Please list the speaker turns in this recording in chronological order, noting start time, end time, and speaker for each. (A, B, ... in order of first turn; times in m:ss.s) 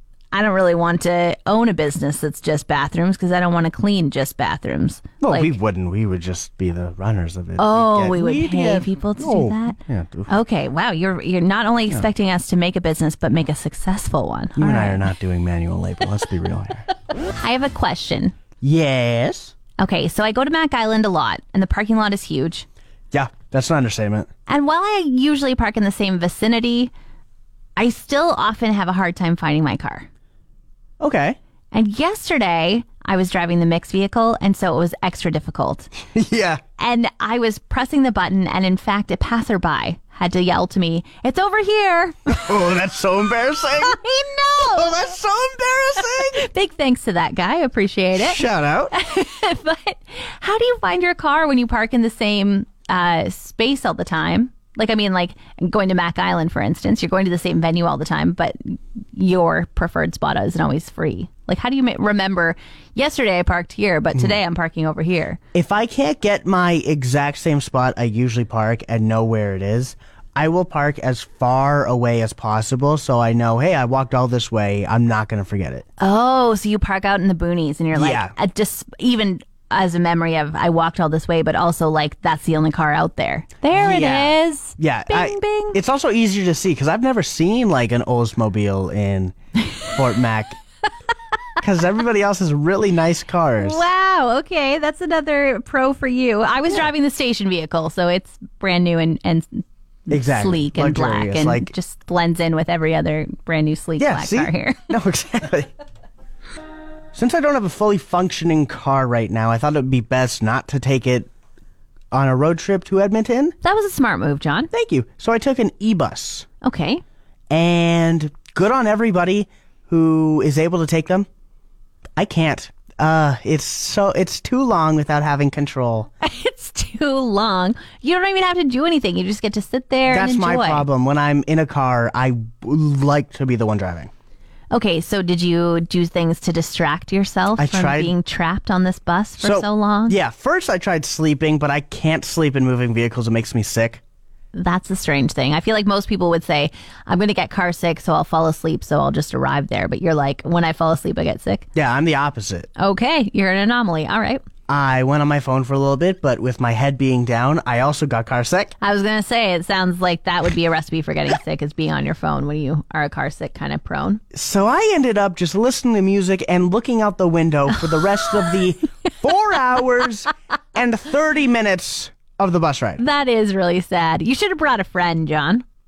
0:00.3-0:05.5 A
0:05.2-0:10.3 B
0:07.6-0:09.8 A
0:10.3-0:15.0 A
0:14.6-0:16.8 B
0:17.4-0:18.4 A
0:18.6-0:19.5 B
0:19.8-0:22.6 A
0:23.1-0:24.3 B
0:24.5-0:26.9 A
0:27.8-0:30.1 A
0:31.0-0:31.4 B
0:31.7-0:35.9 A
0:36.1-0:36.6 B
0:36.8-0:42.5 A
0:42.3-0:44.0 B
0:43.9-0:44.8 A
0:44.6-0:46.5 B
0:46.2-0:48.4 A
0:48.1-0:48.9 B
0:48.9-1:05.4 A
1:04.1-1:04.4 B
1:05.5-1:15.8 B
1:16.0-1:25.8 A
1:17.9-1:18.3 B
1:23.7-1:30.6 B
1:31.6-1:33.8 B
1:33.6-1:44.8 A
1:40.1-1:41.7 B
1:44.0-1:45.7 B
1:47.1-1:51.3 B
1:52.1-1:53.5 B
1:53.6-1:54.7 A
1:54.7-1:56.4 B
1:56.6-1:57.0 A
1:57.5-2:01.3 B
2:02.2-2:06.1 B
2:06.2-2:10.8 A
2:10.1-2:14.1 B
2:14.7-2:20.2 A
2:17.6-2:18.1 B
2:19.4-2:24.0 B
2:24.5-2:31.6 A
2:31.7-2:32.7 B
2:32.8-2:34.4 A
2:34.7-2:38.7 B
2:38.8-2:44.2 A
2:44.3-2:53.0 B
2:53.0-2:55.6 A